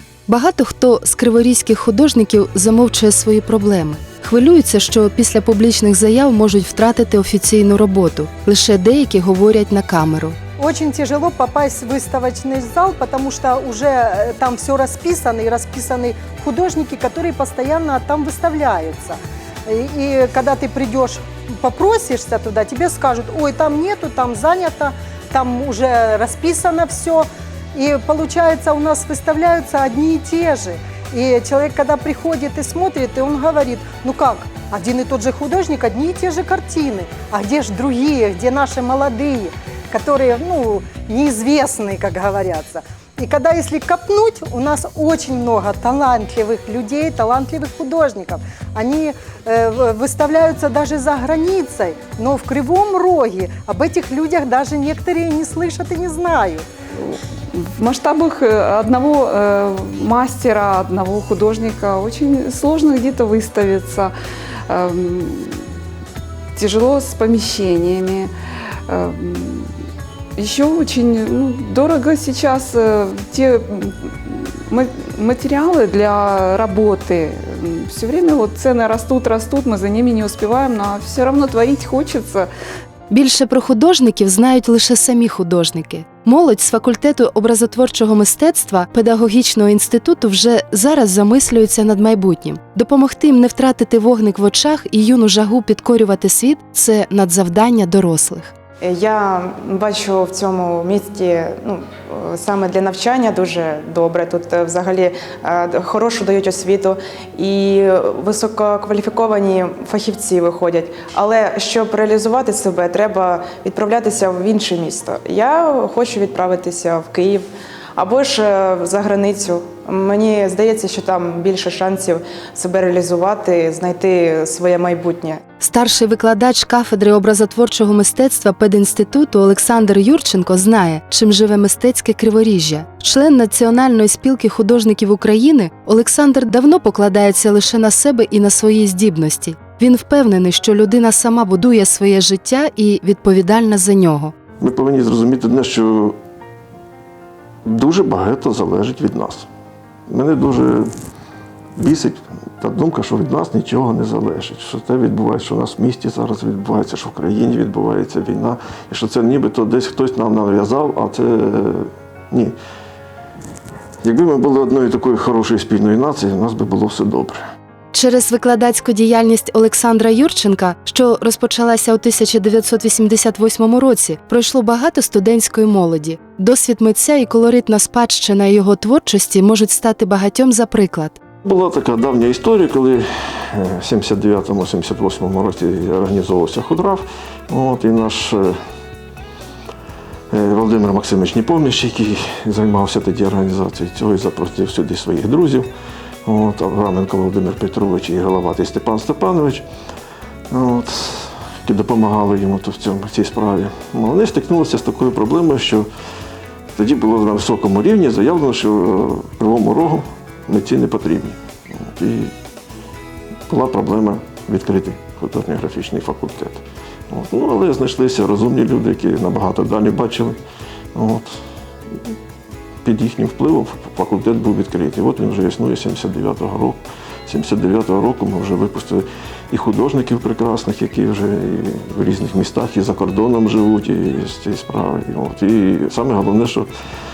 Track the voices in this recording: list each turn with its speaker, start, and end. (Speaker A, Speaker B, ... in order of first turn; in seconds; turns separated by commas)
Speaker A: 0.3-10.4, Speaker B: 10.6-56.6, Speaker C: 57.6-64.1, Speaker C: 64.7-65.5, Speaker C: 66.6-68.3, Speaker C: 68.9-69.6, Speaker C: 70.4-73.9, Speaker C: 74.7-82.4, Speaker A: 83.1-98.5, Speaker D: 99.0-101.5, Speaker D: 102.4-106.9, Speaker D: 107.4-117.4, Speaker D: 118.0-125.3, Speaker A: 125.6-144.3, Speaker E: 144.6-146.2, Speaker E: 147.7-149.5, Speaker E: 150.1-150.9, Speaker E: 151.8-162.5, Speaker E: 164.0-167.4, Speaker A: 167.9-181.2, Speaker E: 181.4-188.6, Speaker E: 190.3-195.7, Speaker E: 196.3-199.6, Speaker E: 200.5-205.9, Speaker E: 206.8-212.3, Speaker E: 213.5-220.4, Speaker E: 220.9-221.3, Speaker E: 222.8-236.7